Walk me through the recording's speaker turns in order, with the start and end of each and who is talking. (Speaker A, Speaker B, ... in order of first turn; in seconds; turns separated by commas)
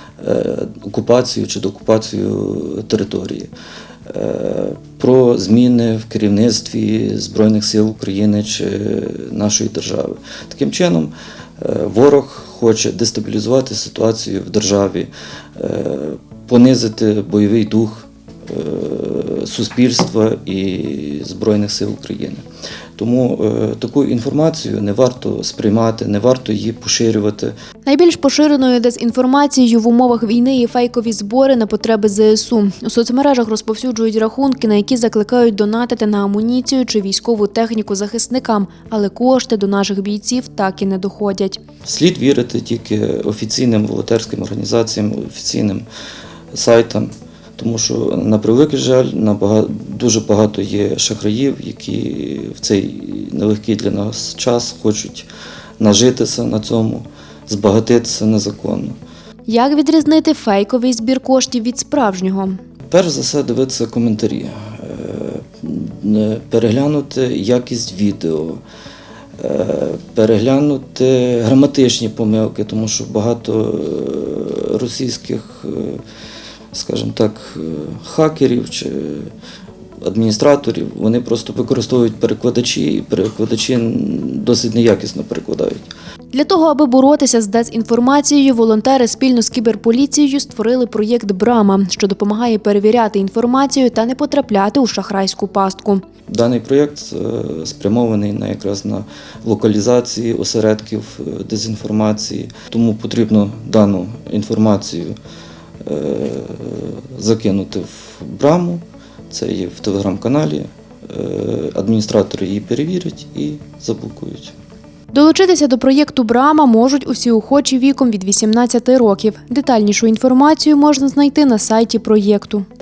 Speaker A: 0.2-3.5, Speaker A: 4.1-22.4, Speaker A: 23.0-27.5, Speaker B: 27.9-41.6, Speaker A: 41.8-45.9, Speaker A: 46.5-55.3, Speaker A: 55.8-59.0, Speaker B: 59.5-62.6, Speaker A: 62.9-68.6, Speaker A: 69.4-76.0, Speaker A: 76.7-79.3, Speaker A: 80.0-85.9, Speaker B: 86.3-96.0, Speaker A: 96.3-105.2, Speaker A: 105.8-114.5, Speaker B: 115.1-122.7